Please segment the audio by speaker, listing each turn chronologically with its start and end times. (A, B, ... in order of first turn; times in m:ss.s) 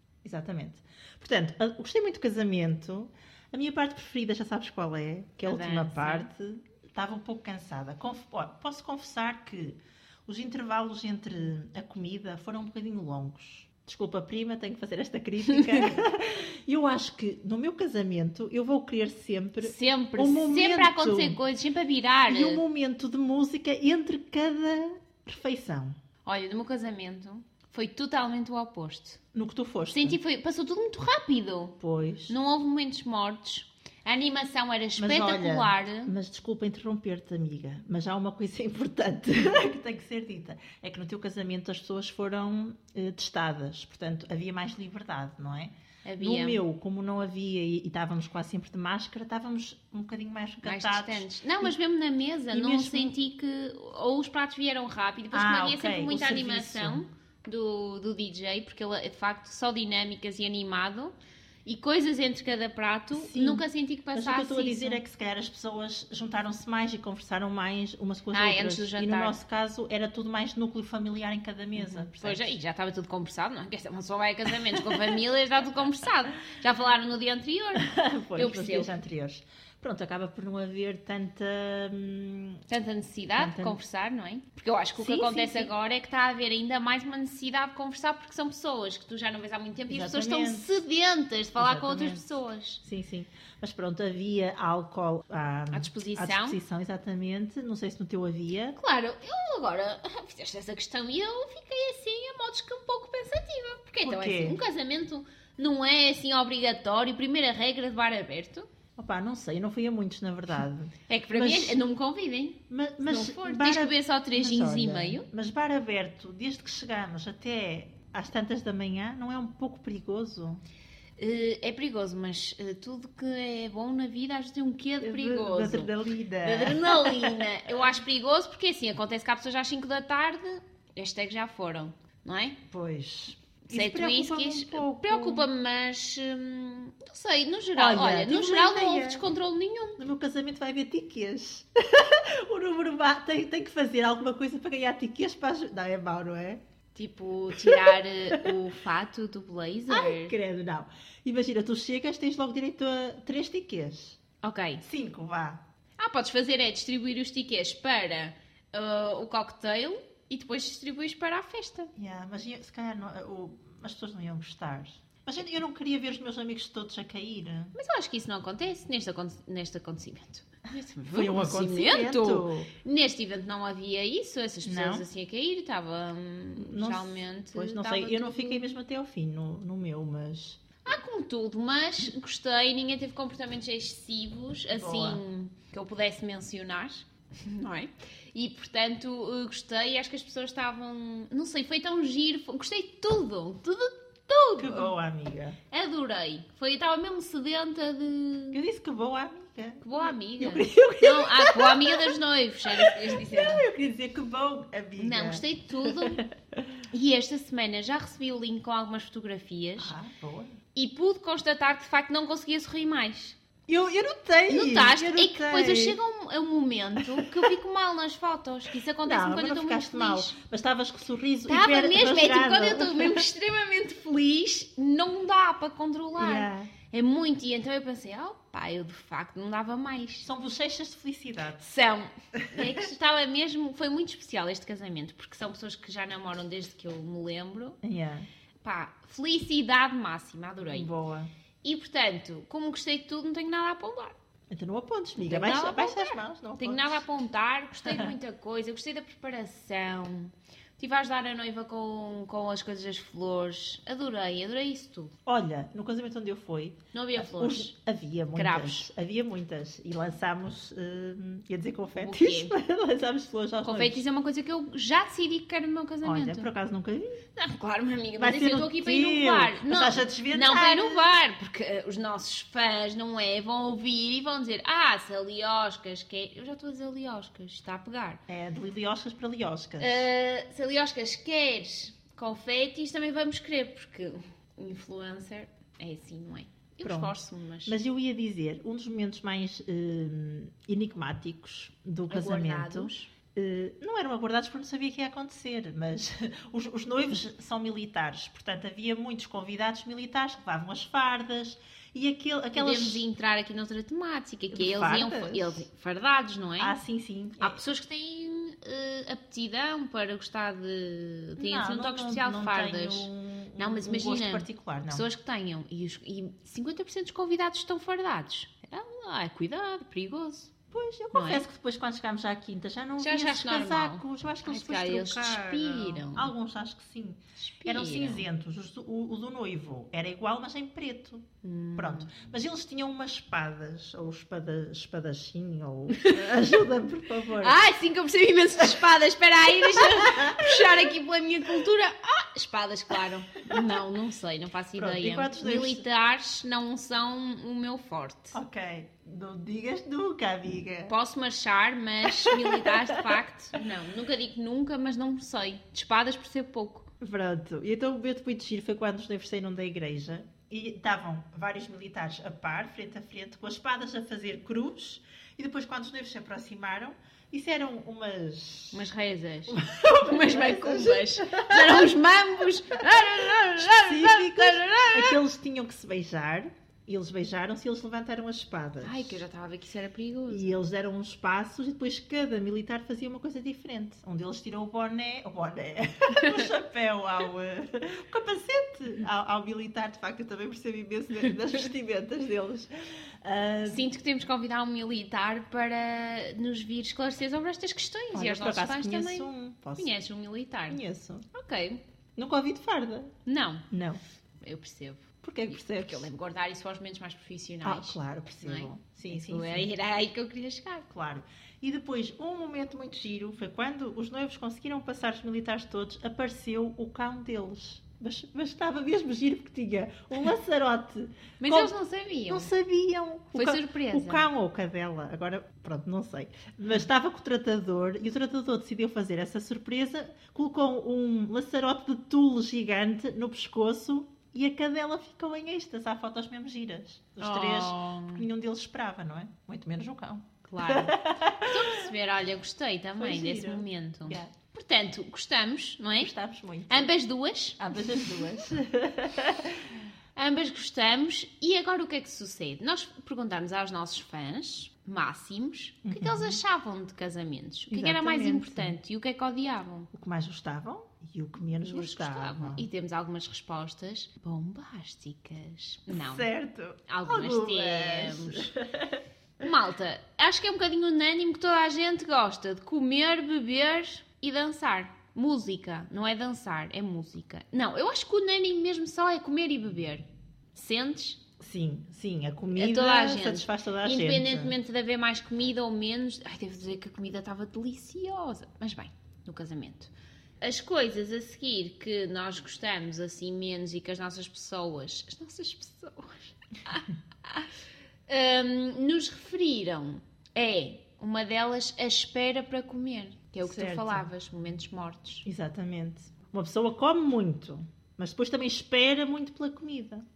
0:00.2-0:21.4 A
0:05.4-0:06.3 B
0:15.6-0:15.8 B
0:19.6-0:22.6 B
0:22.3-0:26.0 A
0:26.2-0:29.2 B
0:29.3-0:30.2 A
0:29.9-0:36.1 B
0:31.8-0:32.4 A
0:35.0-0:51.7 A
0:46.0-0:46.6 B
0:50.6-1:01.1 B
0:52.5-0:53.2 A
0:55.3-0:57.0 A
1:01.6-1:05.0 B
1:03.1-1:12.5 A
1:08.3-1:09.4 B
1:11.8-1:18.9 B
1:14.7-1:15.2 A
1:17.8-1:22.6 A
1:22.7-1:32.8 B
1:23.3-1:23.8 A
1:25.0-1:25.7 A
1:29.9-1:30.8 A
1:31.6-1:32.2 A
1:32.8-1:38.8 A
1:35.7-1:36.6 B
1:38.8-1:48.7 B
1:44.0-1:44.6 A
1:49.0-1:51.8 A
1:51.1-1:55.2 B
1:52.7-2:00.6 A
2:01.2-2:12.6 B
2:05.0-2:07.5 A
2:12.7-2:15.5 A
2:13.7-2:20.0 B
2:17.7-2:19.2 A
2:20.0-2:26.6 A
2:27.0-2:30.3 B
2:27.6-2:28.5 A
2:29.9-2:34.2 A
2:34.4-2:34.8 B
2:34.8-2:35.6 A
2:36.0-2:41.9 B
2:42.0-2:47.7 A
2:47.7-2:58.6 B
2:51.1-2:52.7 A
2:54.6-2:55.0 A
2:56.6-3:00.6 A
3:00.8-3:14.9 B
3:04.7-3:05.2 A
3:14.6-3:15.6 A
3:15.7-3:18.6 B
3:18.5-3:22.2 A
3:19.8-3:23.6 B
3:22.7-3:26.8 A
3:25.0-3:26.2 B
3:26.9-3:29.9 B
3:29.8-3:30.6 A
3:30.8-3:33.4 B
3:33.7-3:36.0 A
3:34.5-3:40.3 B
3:37.0-3:37.5 A
3:39.0-3:43.2 A
3:41.5-3:50.3 B
3:46.2-3:46.7 A
3:50.2-3:51.6 A
3:51.6-3:57.8 B
3:52.4-3:52.8 A
3:57.8-3:58.3 A
3:58.6-4:00.9 B
4:00.6-4:01.3 A
4:01.6-4:04.2 B
4:04.5-4:07.0 A
4:05.2-4:15.1 B
4:07.8-4:08.1 A
4:15.2-4:24.0 A
4:16.9-4:17.7 B
4:18.3-4:18.9 B
4:22.0-4:22.5 B
4:23.6-4:26.5 B
4:26.0-4:27.2 A
4:27.4-4:38.2 B
4:28.2-4:31.2 A
4:38.3-4:40.1 A
4:39.8-4:47.8 B
4:46.8-5:03.0 A
4:52.1-4:53.1 B
5:02.5-5:06.8 B
5:04.5-5:05.6 A
5:06.6-5:07.6 A
5:07.4-5:20.5 B
5:11.4-5:15.1 A
5:20.7-5:37.6 A
5:21.1-5:21.4 B
5:23.0-5:26.3 B
5:27.4-5:28.3 B
5:31.4-5:32.1 B
5:35.9-5:36.4 B
5:37.4-5:48.4 B
5:39.7-5:40.9 A
5:44.7-5:45.8 A
5:48.3-5:50.9 A
5:50.9-5:56.9 B
5:52.0-5:53.2 A
5:57.0-6:08.8 A
6:08.7-6:15.2 B
6:09.5-6:11.9 A
6:13.6-6:19.2 A
6:18.8-6:20.5 B
6:20.3-6:33.8 A
6:26.2-6:26.4 B
6:33.6-6:40.8 B
6:38.1-6:39.9 A
6:40.7-6:41.2 A
6:41.3-6:41.8 B
6:42.2-6:43.1 A
6:43.2-6:43.7 B
6:43.7-6:44.0 A
6:44.4-6:50.9 B
6:45.2-6:46.1 A
6:47.6-6:49.7 A
6:50.9-7:01.8 A
7:01.4-7:02.5 B
7:02.3-7:21.9 A
7:03.3-7:04.2 B
7:17.2-7:18.2 B
7:20.4-7:26.1 B
7:23.0-7:24.3 A
7:26.0-7:26.9 A
7:26.7-7:28.0 B
7:27.6-7:29.8 A
7:30.1-7:39.9 B
7:35.8-7:36.4 A
7:37.7-7:38.8 A
7:39.9-7:42.6 A
7:41.6-7:46.3 B
7:45.9-7:49.0 A
7:46.9-7:48.5 B
7:49.4-8:00.0 B
8:00.5-8:01.2 B
8:01.4-8:04.5 A
8:02.5-8:17.5 B
8:18.1-8:25.2 B
8:23.4-8:24.1 A
8:25.2-8:30.0 A